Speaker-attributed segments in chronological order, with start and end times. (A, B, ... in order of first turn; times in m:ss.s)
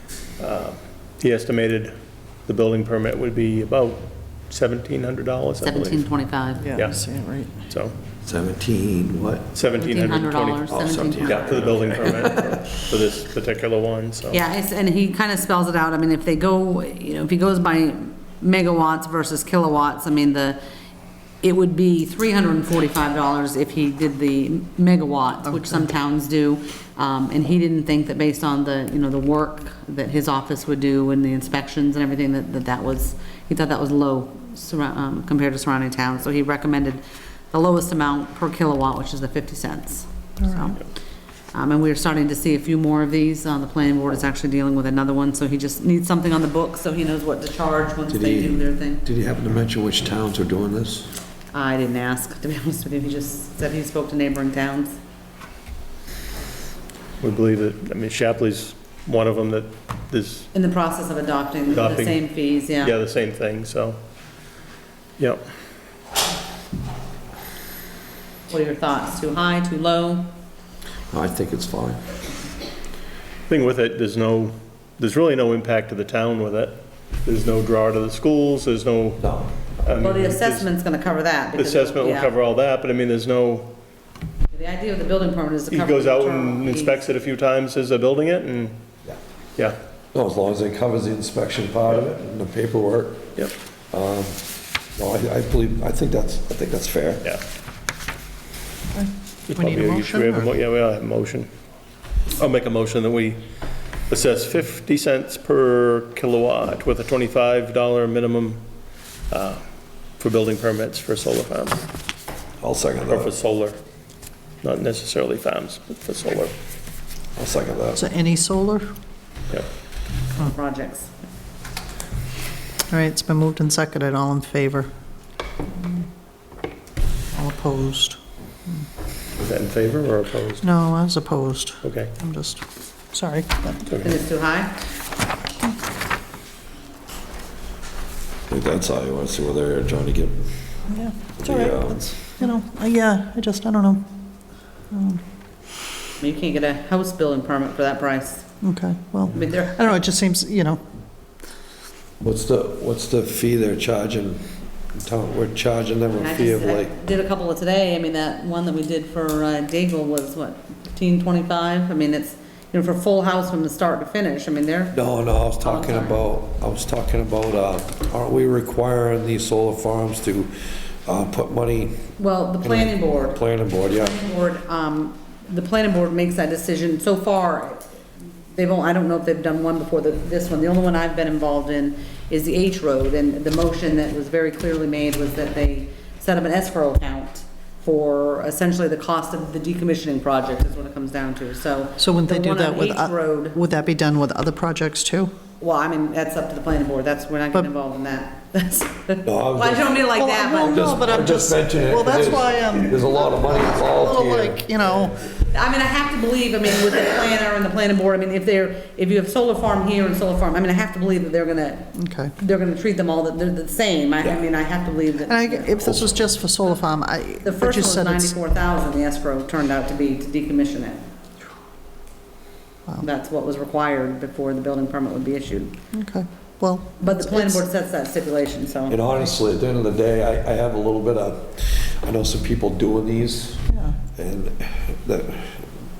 0:00.4-0:01.9 A
0:02.4-0:06.0 A
0:05.6-0:06.7 B
0:06.6-0:07.5 C
0:06.7-0:07.0 A
0:07.7-0:07.9 A
0:08.2-0:09.5 D
0:09.5-0:14.4 A
0:09.8-0:12.2 B
0:10.7-0:12.3 D
0:14.3-0:20.6 B
0:21.4-0:40.8 B
0:41.5-0:49.0 B
0:48.1-0:51.1 D
0:51.5-0:54.9 B
0:57.2-1:00.5 A
1:00.5-1:02.9 B
1:01.7-1:04.0 A
1:05.2-1:05.4 A
1:08.5-1:10.3 B
1:11.1-1:12.0 D
1:13.5-1:19.2 A
1:19.2-1:19.5 D
1:19.8-1:20.7 A
1:20.0-1:22.3 B
1:21.6-1:23.7 A
1:24.5-1:27.0 B
1:25.7-1:28.7 A
1:30.1-1:33.3 D
1:33.9-1:34.4 D
1:35.0-1:37.2 D
1:38.9-1:40.5 C
1:39.5-1:41.5 A
1:42.4-1:43.4 A
1:44.1-1:48.6 A
1:49.3-1:49.6 A
1:50.2-1:51.8 A
1:52.6-1:53.3 D
1:53.1-1:53.8 A
1:54.6-1:56.5 A
1:57.4-1:58.0 D
1:57.9-1:58.8 C
2:00.4-2:01.1 B
2:02.9-2:04.9 C
2:07.3-2:08.8 C
2:09.4-2:10.6 A
2:10.6-2:13.9 C
2:11.8-2:12.1 A
2:14.0-2:14.8 B
2:18.5-2:20.4 D
2:20.9-2:24.0 C
2:21.4-2:22.1 D
2:24.9-2:25.2 C
2:26.2-2:28.5 B
2:28.6-2:30.8 C
2:29.3-2:29.9 B
2:32.2-2:36.9 D
2:36.1-2:45.0 B
2:44.9-2:50.5 D
2:45.6-2:46.2 B
2:51.0-2:54.2 D
2:52.2-2:57.9 B
2:58.5-3:13.6 B
3:12.0-3:15.3 C
3:15.6-3:20.9 B
3:19.2-3:20.0 D
3:20.1-3:25.2 C
3:20.6-3:24.6 D
3:25.5-3:35.7 B
3:31.9-3:32.3 C
3:35.3-3:38.4 C
3:35.8-3:36.1 D
3:37.4-3:41.0 B
3:43.0-3:45.7 B
3:45.9-3:47.6 C
3:47.0-3:49.0 B
3:48.9-3:53.6 D
3:53.7-3:54.0 C
3:54.2-3:55.6 D